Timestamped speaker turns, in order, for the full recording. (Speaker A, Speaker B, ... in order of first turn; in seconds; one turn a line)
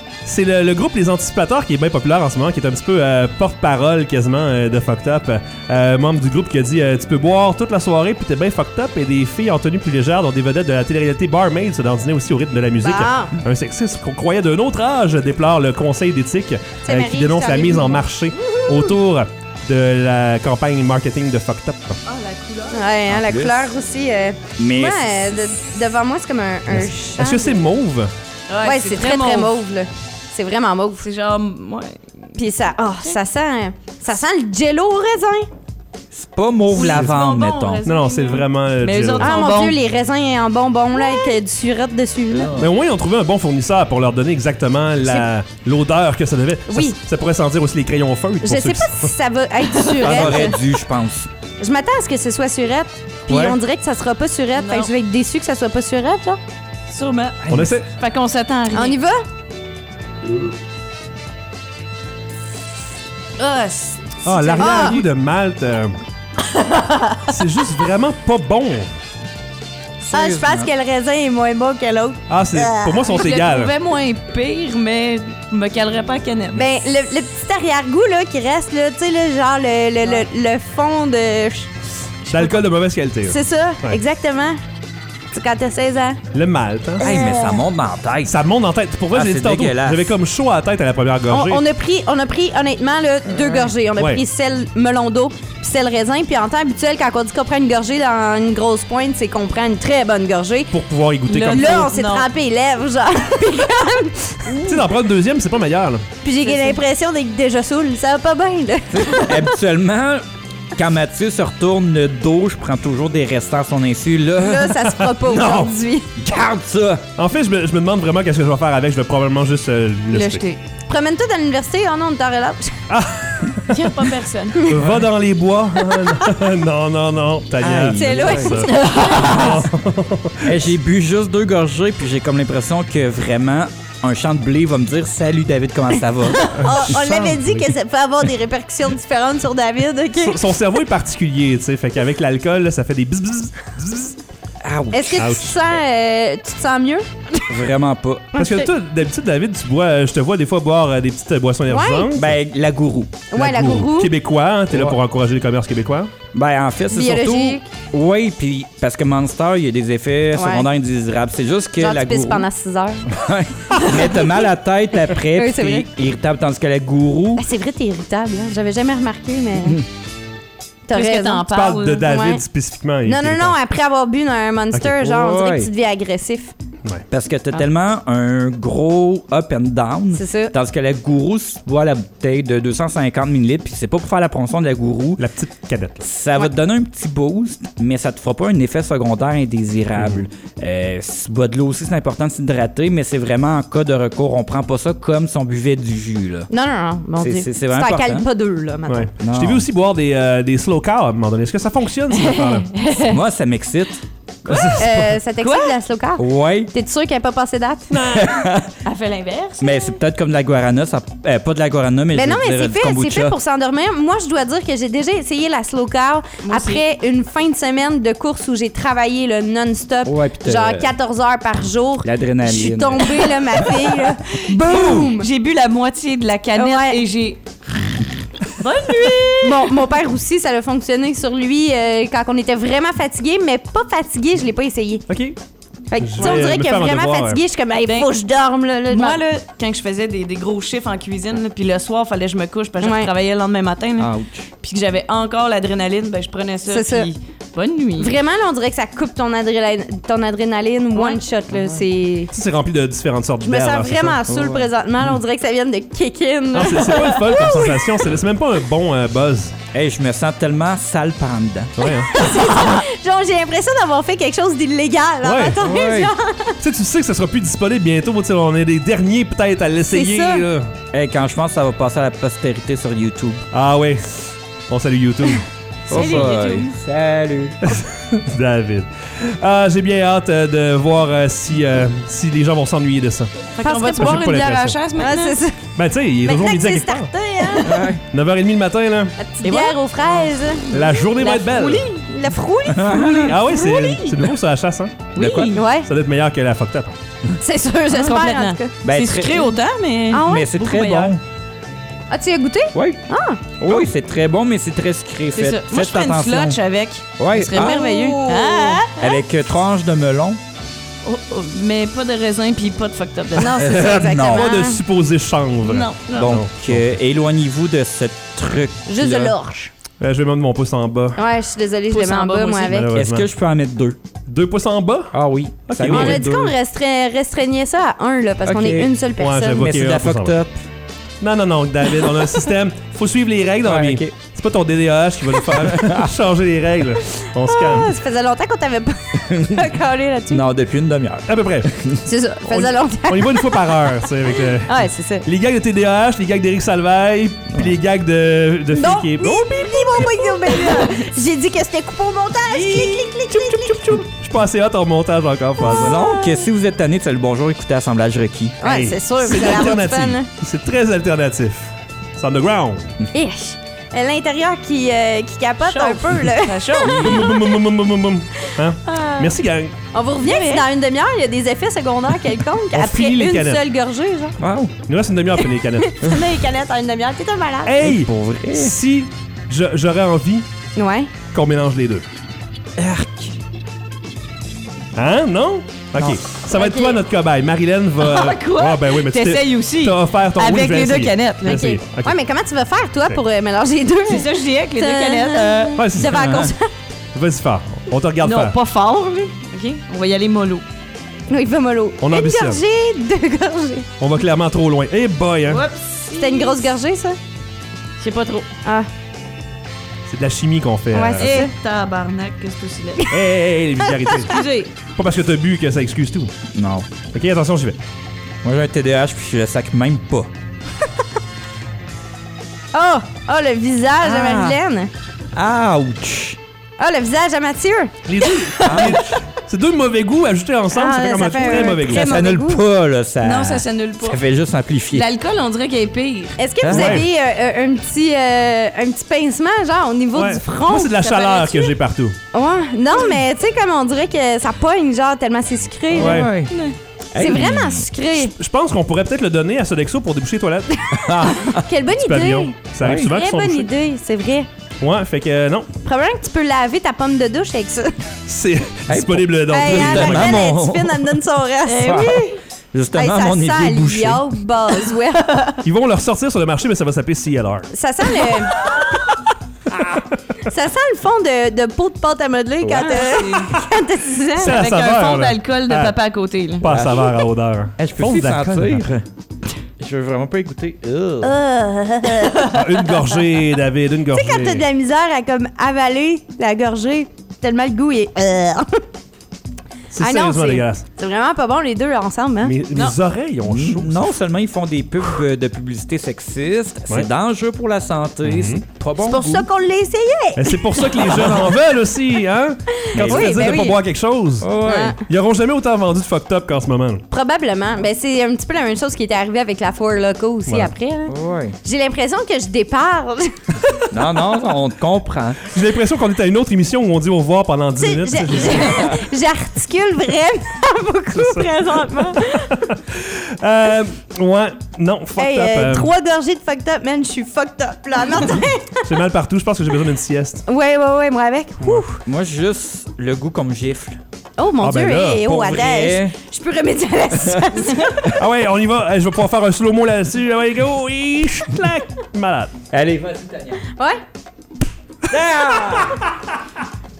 Speaker A: 0.2-22.0
Speaker B: 12.8-13.3
Speaker B: 16.8-18.1
Speaker C: 22.1-23.0
Speaker B: 22.7-27.6
Speaker D: 23.1-23.6
Speaker D: 24.6-25.0
Speaker A: 27.1-28.1
Speaker C: 28.5-29.5
Speaker B: 28.6-31.1
Speaker C: 31.0-32.0
Speaker B: 32.4-35.5
Speaker D: 36.1-37.8
Speaker C: 36.7-39.8
Speaker A: 36.8-37.1
Speaker A: 37.8-39.5
Speaker B: 39.2-42.5
Speaker C: 40.9-41.4
Speaker D: 42.3-42.6
Speaker A: 42.6-49.1
Speaker B: 45.0-45.3
Speaker B: 46.7-47.0
Speaker B: 48.4-50.6
Speaker C: 49.9-50.4
Speaker D: 50.0-51.3
Speaker B: 51.6-56.4
Speaker A: 53.3-53.6
Speaker C: 54.5-54.9
Speaker C: 56.9-59.0
Speaker D: 57.5-57.7
Speaker A: 57.5-57.9
Speaker B: 58.7-59.2
Speaker C: 63.4-65.0
Speaker A: 64.2-66.0
Speaker B: 64.4-65.0
Speaker C: 66.7-67.1
Speaker A: 67.3-68.9
Speaker D: 70.0-70.7
Speaker B: 70.1-72.9
Speaker A: 72.3-73.7
Speaker C: 73.0-76.7
Speaker B: 76.5-81.7
Speaker A: 82.3-84.0
Speaker B: 83.2-84.6
Speaker B: 85.3-86.2
Speaker A: 86.3-87.2
Speaker B: 87.0-87.6
Speaker D: 87.0-88.3
Speaker A: 88.2-91.6
Speaker D: 89.1-90.1
Speaker B: 91.3-100.7
Speaker D: 93.4-93.7
Speaker A: 94.0-94.2
Speaker A: 100.7-101.8
Speaker C: 101.3-102.3
Speaker B: 101.5-104.8
Speaker A: 104.6-106.0
Speaker B: 106.2-109.5
Speaker C: 106.4-106.8
Speaker D: 108.9-110.2
Speaker D: 110.8-115.3
Speaker B: 114.4-116.1
Speaker A: 115.0-115.7
Speaker D: 116.2-117.0
Speaker A: 117.2-120.4
Speaker C: 120.1-120.6
Speaker B: 120.9-122.7
Speaker A: 122.9-124.0
Speaker C: 123.7-124.6
Speaker A: 124.6-130.7
Speaker D: 127.6-129.6
Speaker B: 127.9-128.7
Speaker C: 128.5-129.6
Speaker D: 130.4-136.4
Speaker B: 136.5-140.4
Speaker A: 136.6-137.7
Speaker A: 140.2-144.2
Speaker D: 144.6-145.3
Speaker B: 144.9-147.5
Speaker A: 145.2-145.6
Speaker D: 147.5-148.3
Speaker B: 148.3-148.7
Speaker A: 148.3-152.4
Speaker B: 151.7-152.1
Speaker D: 152.2-153.3
Speaker B: 153.3-154.1
Speaker A: 153.3-156.1
Speaker D: 154.7-154.9
Speaker D: 156.3-162.5
Speaker B: 156.9-157.7
Speaker B: 160.3-160.7
Speaker B: 161.8-163.1
Speaker D: 163.1-167.4
Speaker B: 163.8-164.2
Speaker B: 165.3-165.9
Speaker B: 167.4-169.8
Speaker B: 170.9-171.5
Speaker C: 170.9-172.3
Speaker A: 171.5-173.6
Speaker B: 172.1-172.4
Speaker B: 173.0-176.5
Speaker D: 175.0-175.7
Speaker D: 177.1-185.2
Speaker B: 180.1-180.5
Speaker A: 185.2-186.0
Speaker D: 186.0-196.5
Speaker A: 190.0-190.2
Speaker B: 196.5-199.1
Speaker D: 197.2-198.2
Speaker A: 198.9-202.7
Speaker D: 199.2-199.6
Speaker B: 202.3-203.2
Speaker D: 203.0-204.0
Speaker A: 204.4-205.2
Speaker C: 204.5-204.8
Speaker B: 204.8-208.0
Speaker C: 205.4-205.8
Speaker D: 206.2-206.7
Speaker A: 207.9-208.4
Speaker D: 208.2-208.7
Speaker C: 208.8-209.7
Speaker D: 209.6-213.3
Speaker B: 212.1-225.3
Speaker C: 216.4-216.8
Speaker D: 220.1-220.9
Speaker D: 222.0-223.8
Speaker C: 224.5-227.4
Speaker D: 224.7-224.9
Speaker B: 226.5-227.0
Speaker C: 228.5-229.6
Speaker B: 229.4-235.0
Speaker A: 235.1-235.4
Speaker B: 235.9-239.2
Speaker A: 236.0-237.4
Speaker C: 238.9-248.1
Speaker B: 242.8-243.1
Speaker D: 244.0-244.5
Speaker B: 246.7-247.1
Speaker B: 248.0-252.3
Speaker C: 250.9-251.2
Speaker A: 252.3-254.2
Speaker B: 253.4-258.0
Speaker D: 254.3-254.7
Speaker A: 256.5-259.5
Speaker D: 259.7-261.7
Speaker A: 261.8-262.1
Speaker B: 261.8-266.6
Speaker A: 265.2-265.6
Speaker D: 265.6-266.1
Speaker A: 266.6-270.7
Speaker B: 269.9-270.5
Speaker D: 270.9-273.4
Speaker A: 273.5-274.1
Speaker A: 274.7-276.3
Speaker B: 275.9-276.7
Speaker D: 275.9-277.6
Speaker A: 277.7-284.8
Speaker C: 283.6-285.4
Speaker B: 283.6-284.3
Speaker B: 285.0-285.6
Speaker A: 285.8-287.1
Speaker B: 286.2-287.7
Speaker C: 287.5-287.8
Speaker D: 287.6-288.0
Speaker A: 288.1-289.1
Speaker B: 289.2-291.0
Speaker C: 289.4-289.8
Speaker A: 290.7-291.9
Speaker C: 291.1-292.0
Speaker B: 292.1-294.0
Speaker D: 292.7-293.3
Speaker C: 293.1-293.9
Speaker A: 293.2-295.1
Speaker D: 295.1-295.6
Speaker C: 295.1-295.6
Speaker B: 295.5-295.9
Speaker A: 295.8-296.9
Speaker B: 297.4-298.7
Speaker C: 297.9-301.1
Speaker D: 298.8-299.4
Speaker B: 300.1-300.5
Speaker D: 300.2-301.2
Speaker B: 302.1-303.4
Speaker D: 302.7-303.0
Speaker D: 303.6-306.6
Speaker C: 305.3-309.2
Speaker D: 307.2-308.1
Speaker B: 307.5-308.9
Speaker D: 309.0-310.4
Speaker C: 311.0-313.9
Speaker B: 313.4-314.8
Speaker D: 313.6-314.5
Speaker A: 314.0-316.9
Speaker C: 315.6-316.4
Speaker D: 316.1-319.3
Speaker B: 318.9-319.7
Speaker A: 320.0-321.2
Speaker B: 321.1-322.9
Speaker C: 321.9-322.8
Speaker A: 322.7-323.3
Speaker D: 322.9-324.0
Speaker A: 324.3-325.1
Speaker D: 325.1-326.5
Speaker A: 325.7-326.3
Speaker B: 325.8-329.7
Speaker D: 328.4-328.9
Speaker A: 329.2-330.4
Speaker D: 329.6-330.6
Speaker A: 331.2-337.9
Speaker D: 333.6-334.1
Speaker B: 337.4-340.4
Speaker D: 339.3-339.6
Speaker D: 340.3-342.0
Speaker A: 341.3-341.7
Speaker B: 342.0-343.5
Speaker A: 342.5-350.0
Speaker B: 344.6-345.2
Speaker B: 348.7-354.0
Speaker A: 352.5-356.0
Speaker B: 355.6-356.2
Speaker D: 355.6-358.6
Speaker B: 358.6-360.3
Speaker A: 358.6-362.9
Speaker B: 363.1-367.6
Speaker C: 365.6-367.3
Speaker A: 366.9-369.7
Speaker C: 368.9-369.3
Speaker C: 369.9-370.6
Speaker B: 370.2-374.4
Speaker A: 372.7-373.6
Speaker D: 374.4-374.7
Speaker A: 374.9-376.0
Speaker B: 375.9-377.8
Speaker A: 377.6-380.4
Speaker D: 377.8-378.7
Speaker B: 380.8-381.1
Speaker A: 381.3-382.0
Speaker D: 382.8-383.2
Speaker A: 384.9-392.1
Speaker B: 386.0-387.0
Speaker C: 388.0-391.7
Speaker B: 391.4-396.7
Speaker C: 394.1-395.8
Speaker A: 395.8-396.2
Speaker D: 396.1-396.5
Speaker A: 397.1-398.6
Speaker C: 398.2-400.6
Speaker B: 401.3-403.9
Speaker A: 402.0-402.6
Speaker A: 404.0-405.6
Speaker C: 405.4-406.7
Speaker B: 406.2-407.2
Speaker C: 408.0-408.5
Speaker A: 410.1-411.4
Speaker B: 410.9-411.5
Speaker C: 411.2-413.1
Speaker A: 413.1-414.4
Speaker C: 414.3-414.7
Speaker A: 414.9-416.3
Speaker D: 416.5-416.9
Speaker A: 417.1-417.8
Speaker D: 418.4-420.3
Speaker B: 422.7-424.9
Speaker D: 424.0-424.6
Speaker D: 425.3-426.4
Speaker B: 426.8-427.9
Speaker A: 428.1-432.1
Speaker B: 428.6-429.0
Speaker D: 428.6-429.0
Speaker B: 430.7-432.6
Speaker D: 431.4-435.1
Speaker C: 433.2-434.2
Speaker C: 434.9-436.4
Speaker B: 436.4-440.9
Speaker D: 436.6-437.0
Speaker A: 436.7-437.1
Speaker A: 440.1-442.1
Speaker C: 440.9-441.8
Speaker B: 442.3-446.3
Speaker D: 445.9-446.5
Speaker A: 445.9-446.3
Speaker C: 446.5-446.8
Speaker D: 447.1-447.9
Speaker B: 447.1-448.3
Speaker A: 448.1-450.8
Speaker D: 451.0-451.6
Speaker B: 451.5-452.5
Speaker A: 451.9-453.7
Speaker D: 452.8-453.1
Speaker B: 453.1-454.5
Speaker A: 454.8-455.7
Speaker B: 455.8-457.9
Speaker A: 458.2-460.4
Speaker D: 458.9-461.1
Speaker B: 459.5-462.2
Speaker C: 461.7-462.4
Speaker D: 461.8-464.3
Speaker B: 462.9-465.4
Speaker A: 465.6-467.7
Speaker B: 467.7-468.5
Speaker B: 470.4-474.6
Speaker D: 472.6-473.0
Speaker C: 472.7-473.6
Speaker A: 474.4-476.0
Speaker C: 474.4-476.7
Speaker A: 476.6-479.0
Speaker D: 476.6-477.1
Speaker D: 477.8-479.0
Speaker D: 479.8-481.3
Speaker B: 481.2-482.5
Speaker C: 482.3-483.0
Speaker A: 482.5-484.6
Speaker B: 484.1-488.7
Speaker A: 489.9-490.8
Speaker B: 490.0-492.6
Speaker A: 492.4-494.1
Speaker D: 493.4-499.4
Speaker A: 498.2-498.6
Speaker B: 499.0-501.5
Speaker A: 500.3-504.5
Speaker B: 502.9-503.8
Speaker D: 502.9-503.7
Speaker D: 504.4-505.0
Speaker B: 504.6-505.0
Speaker A: 505.1-507.0
Speaker B: 507.1-513.8
Speaker A: 510.5-510.7
Speaker D: 511.1-511.6
Speaker D: 513.9-515.5
Speaker A: 515.5-519.0
Speaker B: 517.8-522.5
Speaker A: 521.1-525.9
Speaker B: 525.2-528.9
Speaker A: 528.4-530.5
Speaker B: 530.5-532.0
Speaker D: 532.0-534.0
Speaker B: 534.4-538.1
Speaker A: 534.6-535.6
Speaker D: 535.3-536.1
Speaker A: 538.1-542.5
Speaker D: 542.7-543.6
Speaker D: 545.1-546.0